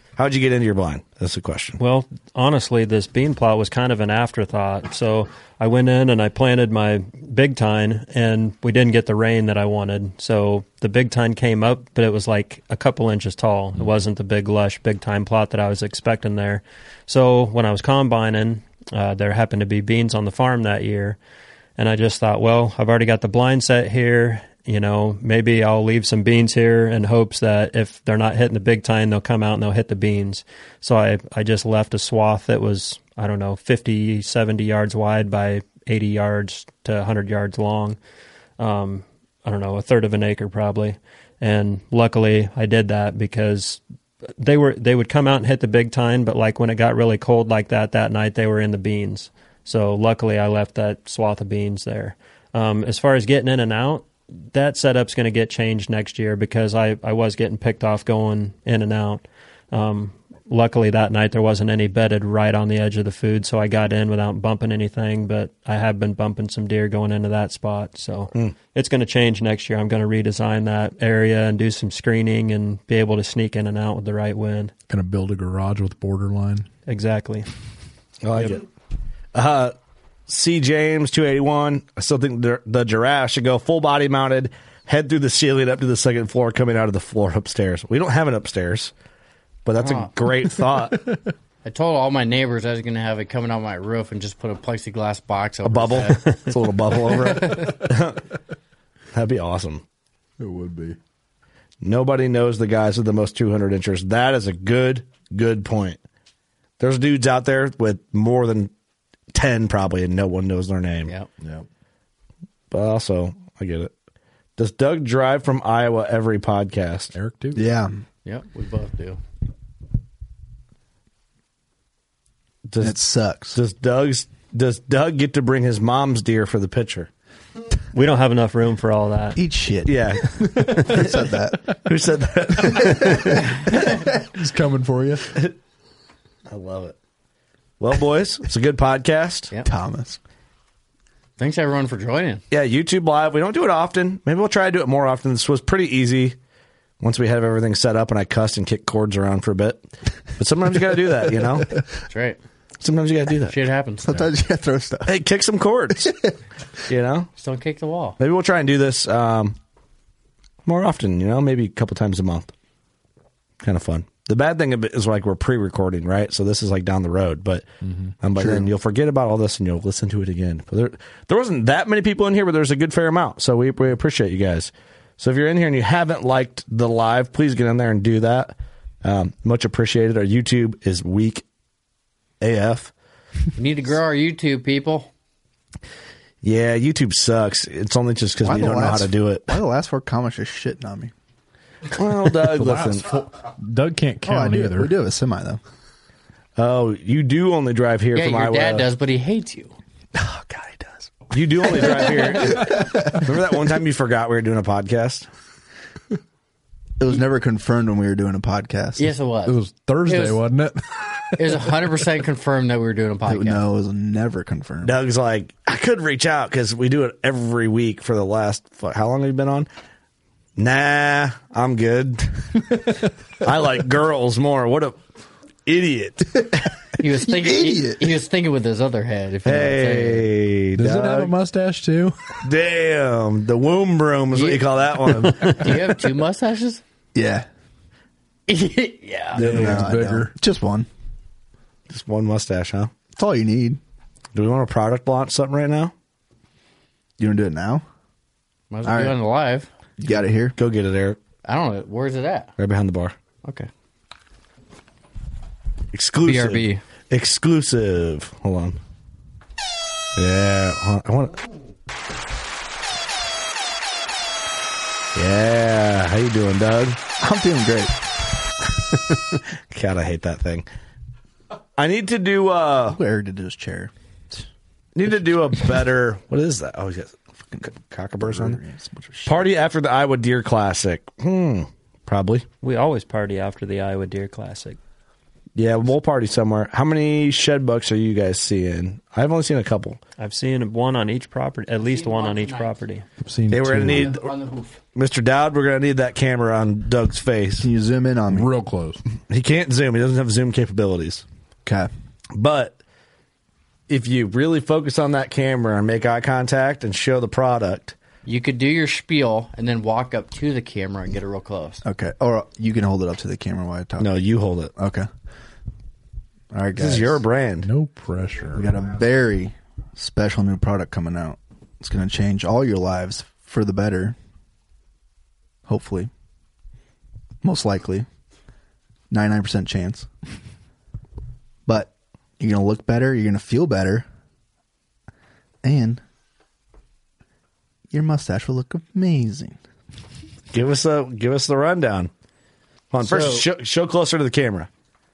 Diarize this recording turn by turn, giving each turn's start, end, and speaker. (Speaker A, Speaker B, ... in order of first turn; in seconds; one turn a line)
Speaker A: 0.2-1.8
Speaker B: 1.8-21.2
Speaker B: 21.8-38.0
Speaker B: 38.6-43.8
Speaker B: 44.4-74.7
Speaker C: 74.9-76.7
Speaker B: 76.9-77.5
Speaker A: 78.2-78.6
Speaker A: 79.3-79.7
Speaker A: 80.3-88.9
Speaker A: 89.7-91.1
Speaker D: 89.8-90.1
Speaker D: 91.7-97.8
Speaker A: 95.7-98.2
Speaker A: 99.1-99.8
Speaker C: 100.4-101.0
Speaker A: 101.8-106.0
Speaker A: 106.8-108.7
Speaker A: 109.3-111.1
Speaker C: 111.4-111.7
Speaker A: 112.7-113.9
Speaker A: 114.6-117.1
Speaker C: 117.1-117.7
Speaker E: 117.5-118.0
Speaker D: 118.2-119.2
Speaker A: 122.7-123.0
Speaker E: 122.8-123.6
Speaker A: 123.5-127.1
Speaker B: 127.9-129.4
Speaker E: 129.4-131.7
Speaker A: 129.9-133.7
Speaker E: 132.8-133.2
Speaker C: 134.3-135.3
Speaker A: 136.5-136.9
Speaker A: 137.8-139.5
Speaker E: 139.6-140.2
Speaker D: 141.4-142.4
Speaker A: 142.5-146.4
Speaker A: 147.0-149.8
Speaker A: 150.4-151.7
Speaker D: 152.1-152.4
Speaker A: 152.8-153.6
Speaker D: 153.5-154.1
Speaker E: 154.1-155.2
Speaker A: 155.1-156.2
Speaker E: 156.0-156.3
Speaker A: 156.9-157.3
Speaker D: 157.4-158.2
Speaker A: 158.2-159.6
Speaker A: 160.7-162.5
Speaker A: 163.6-167.7
Speaker C: 167.8-168.1
Speaker A: 168.2-181.4
Speaker E: 168.3-168.7
Speaker A: 182.4-182.9
Speaker D: 183.6-185.1
Speaker A: 186.4-189.5
Speaker E: 188.4-191.1
Speaker A: 191.9-193.1
Speaker C: 192.4-194.9
Speaker E: 194.2-195.6
Speaker A: 196.6-198.9
Speaker D: 198.1-199.8
Speaker E: 200.2-201.1
Speaker A: 201.3-205.3
Speaker D: 201.8-202.7
Speaker E: 202.5-203.3
Speaker E: 207.0-209.1
Speaker D: 209.0-210.4
Speaker C: 209.5-211.6
Speaker D: 211.4-213.6
Speaker E: 213.2-214.9
Speaker A: 214.8-219.7
Speaker A: 220.6-222.8
Speaker A: 223.4-225.0
Speaker A: 225.7-226.7
Speaker D: 227.0-230.3
Speaker E: 227.2-228.2
Speaker A: 229.4-231.3
Speaker C: 230.8-232.3
Speaker A: 232.4-235.8
Speaker D: 234.3-236.8
Speaker E: 237.1-237.5
Speaker D: 238.5-239.7
Speaker C: 239.4-240.3
Speaker E: 239.4-240.9
Speaker A: 239.4-239.8
Speaker A: 241.9-242.9
Speaker E: 243.2-243.8
Speaker A: 244.3-245.9
Speaker E: 247.2-247.8
Speaker D: 248.7-249.7
Speaker E: 248.8-249.2
Speaker E: 250.0-250.6
Speaker A: 250.6-251.2
Speaker D: 251.4-252.5
Speaker A: 252.6-253.2
Speaker D: 253.4-253.7
Speaker A: 255.9-258.8
Speaker D: 256.2-256.8
Speaker A: 260.2-261.4
Speaker A: 265.1-267.0
Speaker E: 267.2-267.9
Speaker A: 269.4-270.7
Speaker A: 271.8-273.0
Speaker E: 272.9-273.9
Speaker A: 275.0-278.6
Speaker E: 277.5-279.4
Speaker A: 279.3-282.5
Speaker B: 282.6-284.8
Speaker A: 285.6-290.0
Speaker B: 290.2-293.1
Speaker D: 291.8-292.8
Speaker C: 293.2-294.1
Speaker A: 293.5-294.3
Speaker D: 293.7-294.8
Speaker A: 294.9-297.7
Speaker E: 297.6-298.5
Speaker C: 298.3-299.0
Speaker A: 299.3-301.2
Speaker E: 301.6-301.9
Speaker A: 302.4-302.8
Speaker A: 303.9-307.9
Speaker D: 308.3-311.8
Speaker E: 311.8-314.1
Speaker A: 314.0-314.7
Speaker E: 314.8-315.1
Speaker E: 316.5-317.2
Speaker A: 316.8-317.7
Speaker C: 317.6-318.8
Speaker E: 318.5-324.2
Speaker E: 325.7-326.1
Speaker E: 327.4-328.1
Speaker E: 329.1-330.1
Speaker E: 331.7-334.1
Speaker E: 335.6-336.0
Speaker E: 337.9-339.6
Speaker A: 340.5-342.1
Speaker A: 342.9-344.7
Speaker E: 343.0-343.5